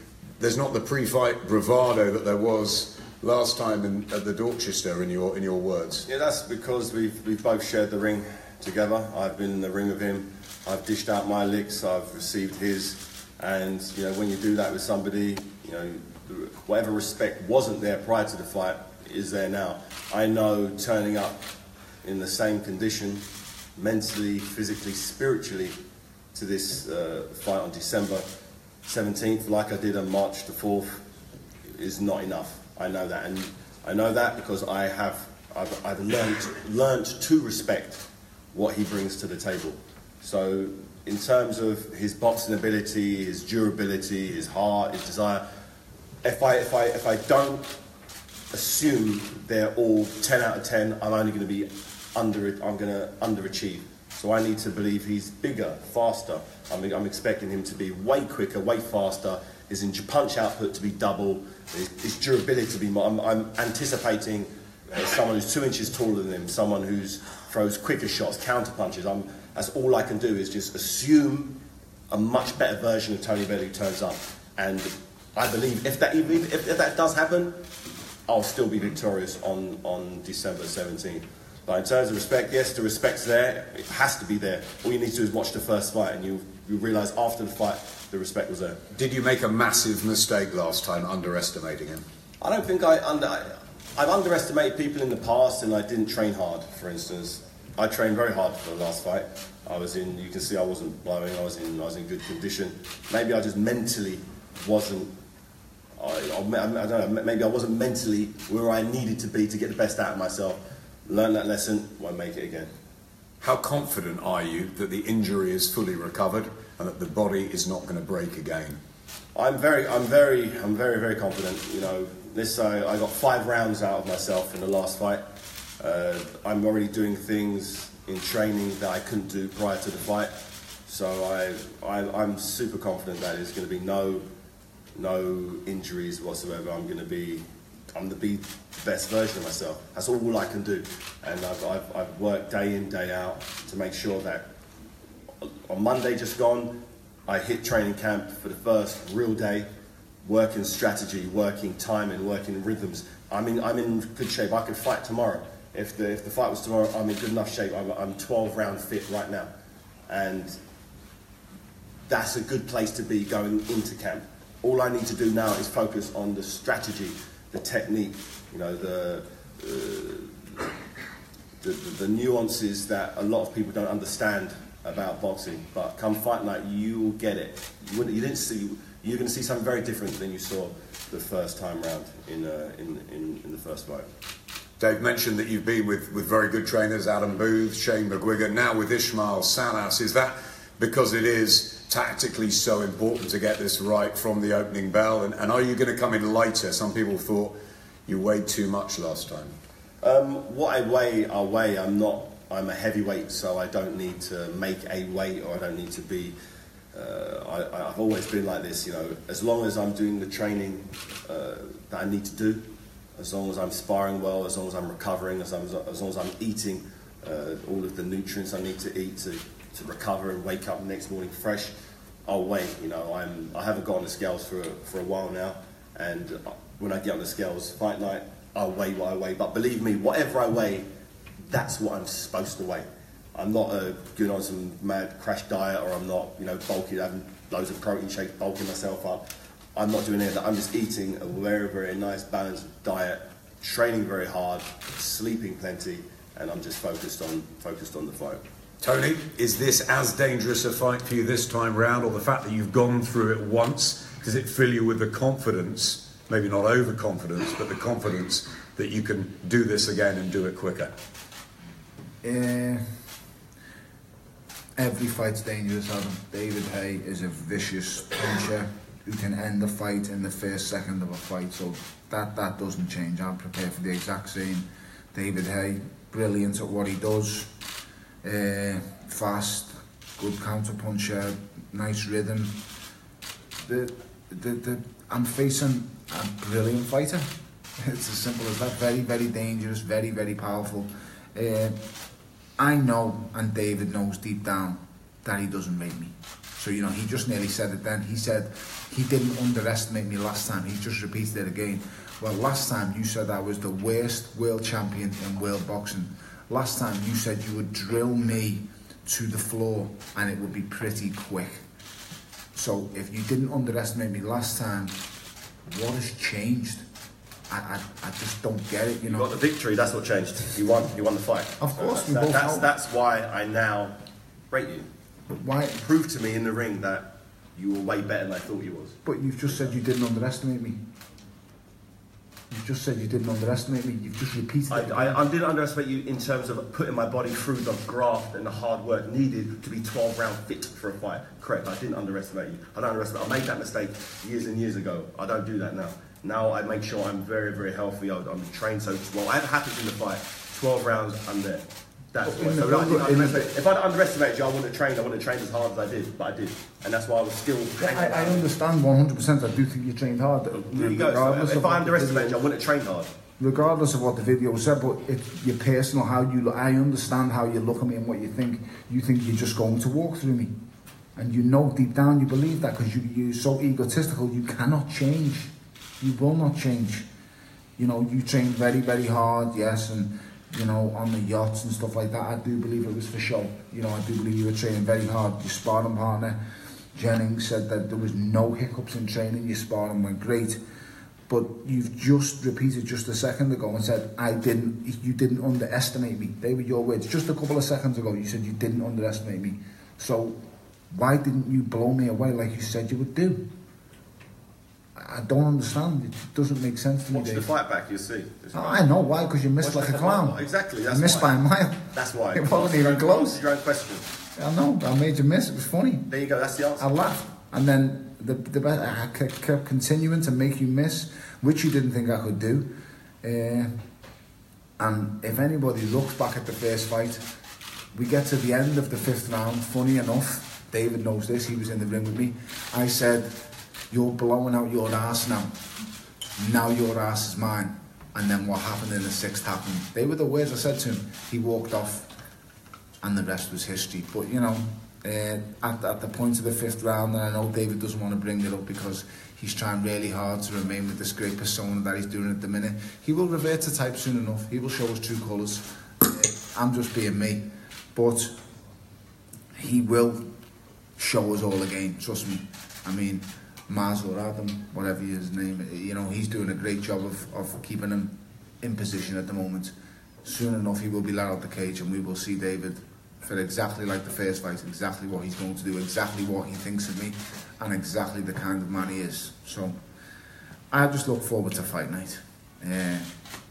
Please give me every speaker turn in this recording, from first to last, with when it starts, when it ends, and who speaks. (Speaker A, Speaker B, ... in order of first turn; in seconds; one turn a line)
Speaker A: 0.4-6.1
Speaker B: 6.1-21.4
Speaker B: 22.0-23.2
Speaker B: 23.8-25.7
Speaker B: 26.3-28.2
Speaker B: 28.9-31.0
Speaker B: 31.7-45.4
Speaker B: 46.2-47.7
Speaker B: 48.5-71.6
Speaker B: 72.1-77.6
Speaker B: 78.3-88.8
Speaker A: 88.9-92.0
Speaker B: 92.4-105.1
Speaker B: 106.0-112.7
Speaker A: 113.4-118.8
Speaker B: 119.3-125.2
Speaker B: 125.8-130.3
Speaker B: 130.9-134.2
Speaker B: 134.9-144.5
Speaker B: 145.4-149.7
Speaker B: 150.2-159.5
Speaker B: 160.1-160.6
Speaker B: 162.1-170.7
Speaker B: 171.6-184.1
Speaker A: 184.8-197.6
Speaker A: 198.1-199.6
Speaker B: 200.0-206.3
Speaker B: 206.9-212.6
Speaker B: 213.2-221.7
Speaker B: 222.3-230.9
Speaker B: 231.5-248.4
Speaker A: 248.8-260.9
Speaker C: 262.2-262.8
Speaker C: 264.8-277.5
Speaker C: 278.2-282.6
Speaker C: 283.6-291.8
Speaker C: 292.6-311.6
Speaker C: 312.5-315.0
Speaker C: 315.7-316.9
Speaker C: 317.5-319.3
Speaker B: 319.1-324.0
Speaker C: 321.6-322.7
Speaker B: 324.5-324.9
Speaker C: 325.4-325.8
Speaker B: 325.8-329.0
Speaker C: 329.1-330.8
Speaker C: 332.5-335.2
Speaker B: 334.7-358.5
Speaker C: 352.2-353.6
Speaker C: 357.8-362.4
Speaker B: 360.5-363.1
Speaker C: 363.4-370.5
Speaker C: 371.2-377.1
Speaker C: 377.8-386.4
Speaker C: 386.9-390.6
Speaker C: 391.3-403.4
Speaker C: 404.9-407.5
Speaker B: 407.1-408.9
Speaker C: 408.5-413.4
Speaker B: 409.6-411.4
Speaker B: 411.9-414.1
Speaker C: 414.4-416.1
Speaker B: 416.1-416.9
Speaker C: 416.8-422.7
Speaker C: 423.2-423.7
Speaker C: 424.8-427.2
Speaker C: 427.9-433.4
Speaker C: 433.9-435.5
Speaker C: 436.4-442.1
Speaker C: 443.0-458.4
Speaker C: 459.6-460.2
Speaker C: 461.0-479.8
Speaker C: 480.7-483.1